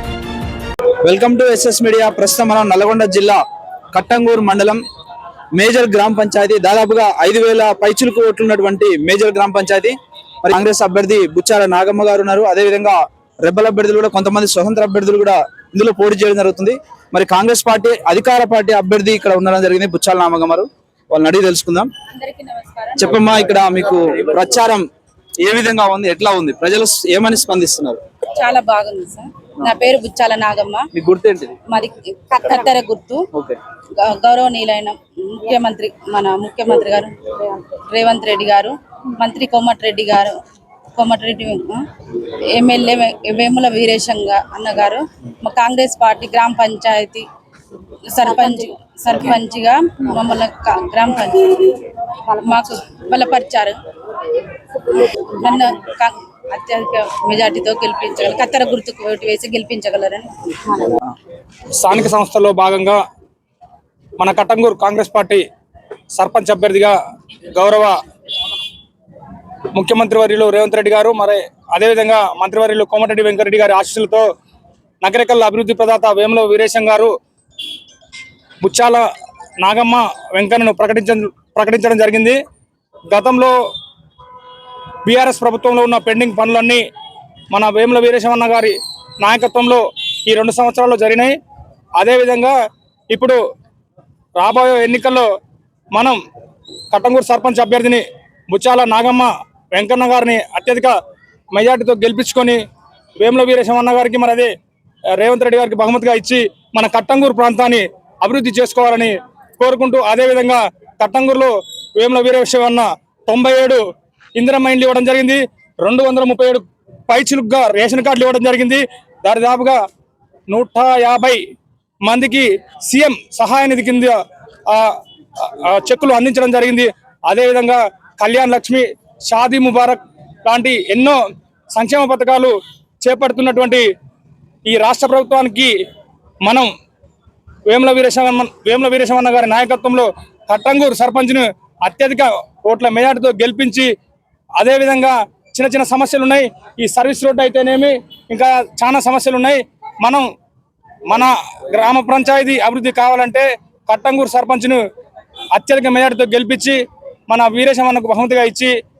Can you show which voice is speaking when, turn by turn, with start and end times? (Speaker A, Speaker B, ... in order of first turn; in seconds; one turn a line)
Speaker A: 1.0-4.8
Speaker A: 5.5-21.9
Speaker B: 22.1-23.2
Speaker A: 23.0-24.9
Speaker A: 25.4-28.0
Speaker B: 28.4-30.9
Speaker A: 30.9-31.6
Speaker B: 31.7-33.2
Speaker B: 34.0-37.1
Speaker B: 37.7-40.4
Speaker B: 41.0-41.8
Speaker B: 42.5-47.3
Speaker B: 48.1-51.8
Speaker B: 52.4-53.8
Speaker B: 54.9-60.9
Speaker C: 61.8-63.0
Speaker C: 64.2-65.5
Speaker C: 66.2-66.9
Speaker C: 67.5-68.0
Speaker C: 69.7-74.2
Speaker C: 75.0-77.1
Speaker C: 78.6-79.0
Speaker C: 79.6-82.4
Speaker C: 83.1-83.5
Speaker C: 85.1-86.8
Speaker C: 87.5-91.4
Speaker C: 92.0-92.5
Speaker C: 93.1-93.4
Speaker C: 94.4-95.3
Speaker C: 96.9-100.9
Speaker C: 101.5-102.6
Speaker C: 103.2-104.5
Speaker C: 105.2-113.8
Speaker C: 114.3-119.8
Speaker C: 120.5-121.4
Speaker C: 122.1-124.1
Speaker C: 125.4-131.2
Speaker C: 131.7-133.8
Speaker C: 134.7-135.7
Speaker C: 137.7-143.9
Speaker C: 144.6-150.2
Speaker C: 151.1-154.8
Speaker C: 155.5-158.8